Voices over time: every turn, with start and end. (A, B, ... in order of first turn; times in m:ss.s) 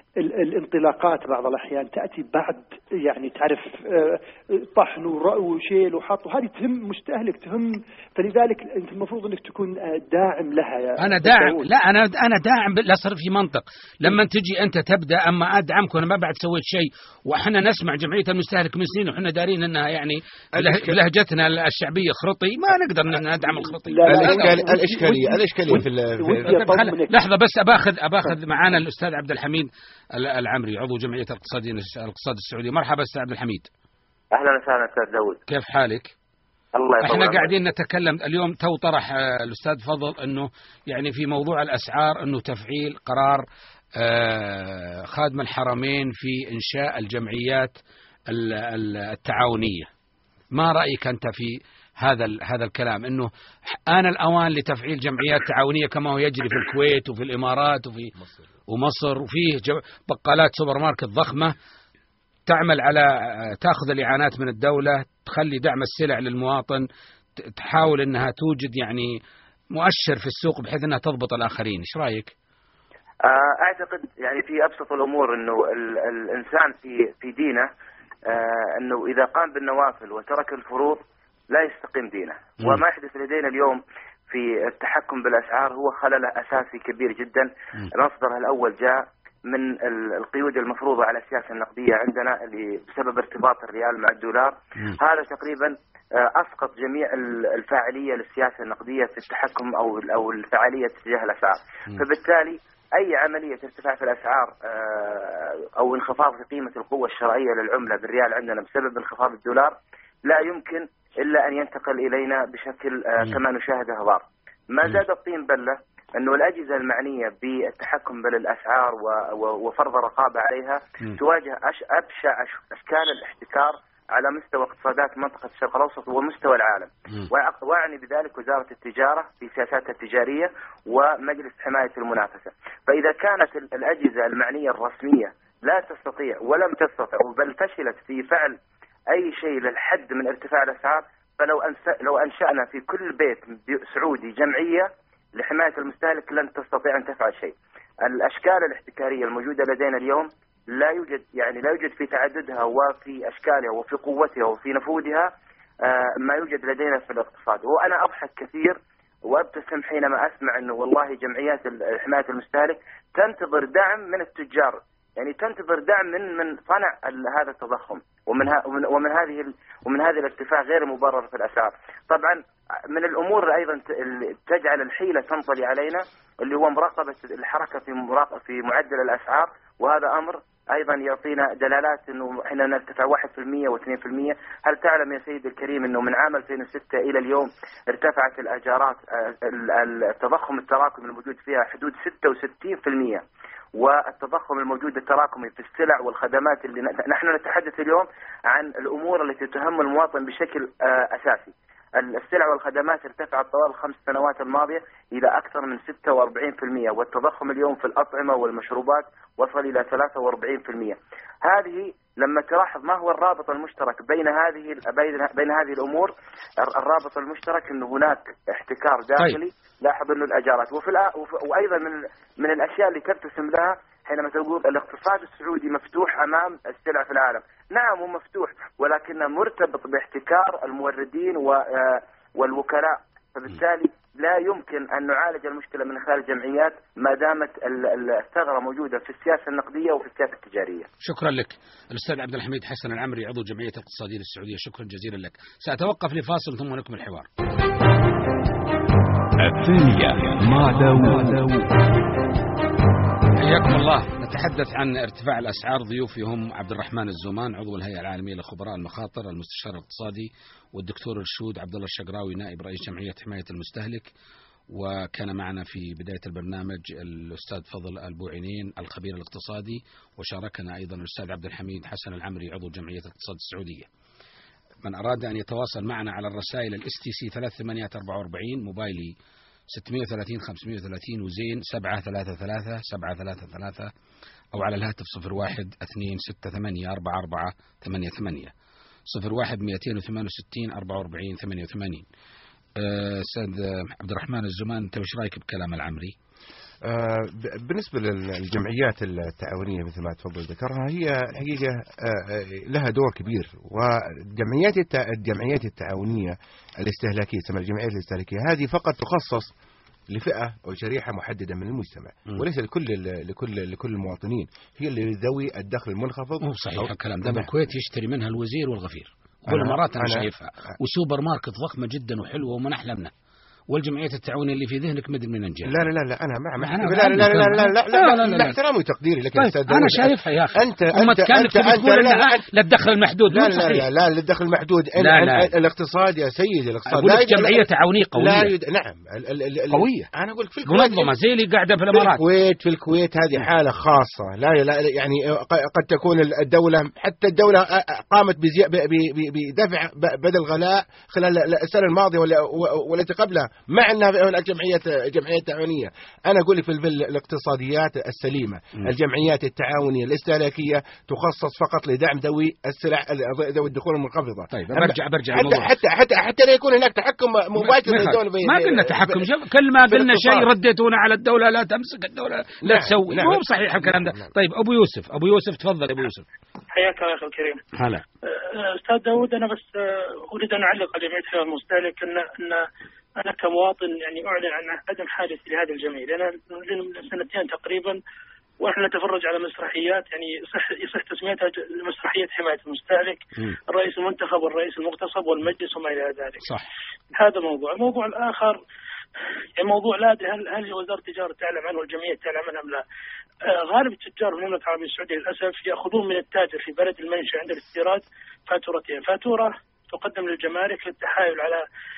0:00.2-0:11.6 A
0:11.0-0:24.6 B
0:20.5-0:21.0 C
0:23.9-0:27.1 A
0:24.0-0:26.5 C
0:26.5-0:33.7 B
0:34.3-0:35.4 D
0:35.5-0:36.1 B
0:36.7-0:37.5 D
0:37.0-0:43.4 B
0:44.0-0:47.7 B
0:48.3-0:49.9 B
0:50.5-0:58.1 B
0:58.7-1:01.5 B
1:02.5-1:06.8 B
1:07.5-1:09.2 B
1:09.7-1:12.3 B
1:13.2-1:17.7 D
1:18.3-2:18.6 D
2:19.1-4:00.9 D
4:01.0-4:07.3 B
4:09.4-4:11.7 E
4:13.4-4:24.1 B
4:24.7-4:33.9 B
4:34.8-4:39.1 B
4:39.7-4:43.9 B
4:44.5-4:48.5 B
4:49.1-4:52.0 B
4:52.8-4:56.1 B
4:56.8-5:09.5 C
5:10.1-5:17.5 C
5:16.4-5:23.1 B
5:19.5-5:20.3 C
5:23.7-5:25.8 B
5:25.6-5:32.4 C
5:26.6-5:28.6 B
5:29.4-5:33.8 B
5:33.3-5:41.1 C
5:35.0-5:35.5 B
5:36.9-5:38.5 B
5:39.7-5:40.1 B
5:40.6-5:42.2 B
5:41.9-6:09.3 C
6:04.5-6:05.7 B
6:07.6-6:16.2 B
6:09.9-6:10.5 C
6:12.6-6:14.3 C
6:16.7-6:17.6 F
6:17.8-6:18.0 B
6:18.3-6:22.7 F
6:23.2-6:28.0 F
6:28.6-6:36.5 F
6:37.2-6:38.6 F
6:39.6-6:42.8 F
6:43.7-6:51.6 F